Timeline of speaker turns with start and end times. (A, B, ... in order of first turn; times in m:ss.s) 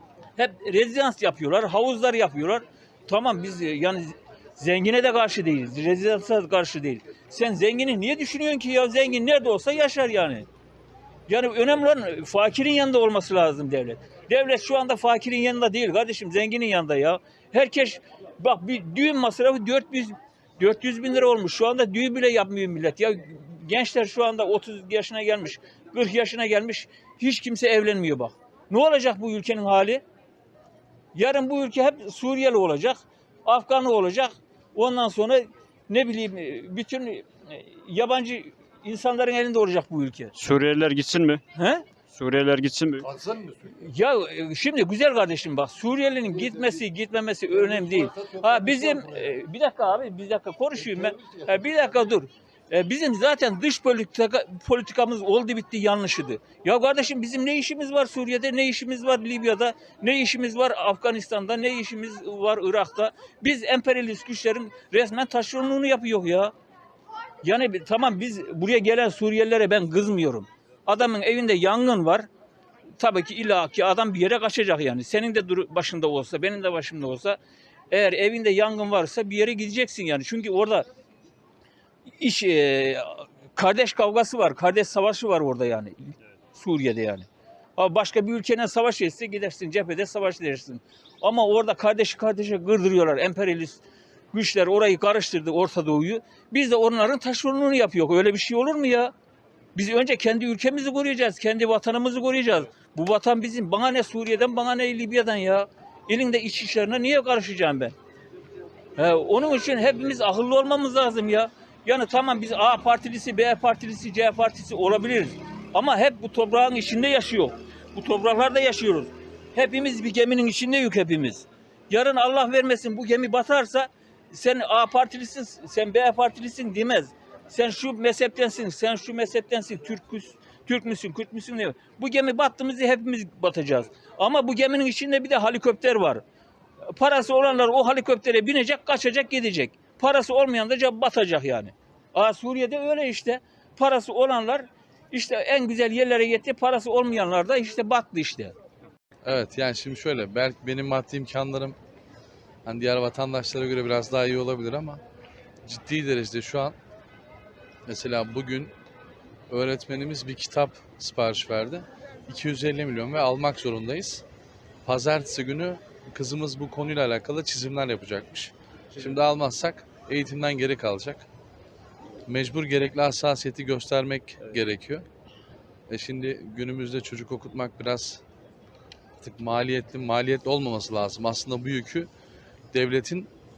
0:00.4-0:10.5 A
0:11.3-0:30.0 A
0:31.1-0:40.3 A
0:40.3-0:41.4 B
0:41.5-0:41.8 A
0:42.1-0:43.1 B
0:43.0-0:43.7 C
0:43.8-1:06.5 A
0:46.2-0:46.8 C
0:47.5-0:49.4 C
0:50.8-0:52.1 C
1:07.4-1:12.3 A
1:13.0-1:17.4 A
1:17.9-1:20.9 A
1:22.1-1:33.8 A
1:34.3-1:39.1 A
1:39.7-1:47.9 A
1:49.0-2:16.2 A
2:16.9-2:28.5 A
2:29.2-2:31.8 D
2:32.6-2:35.0 D
2:35.6-2:36.8 D
2:37.9-2:38.7 D
2:39.5-2:44.2 D
2:44.8-2:51.3 D
2:52.3-2:55.0 D
2:55.9-2:58.2 D
2:59.2-3:02.1 D
3:02.7-3:03.3 D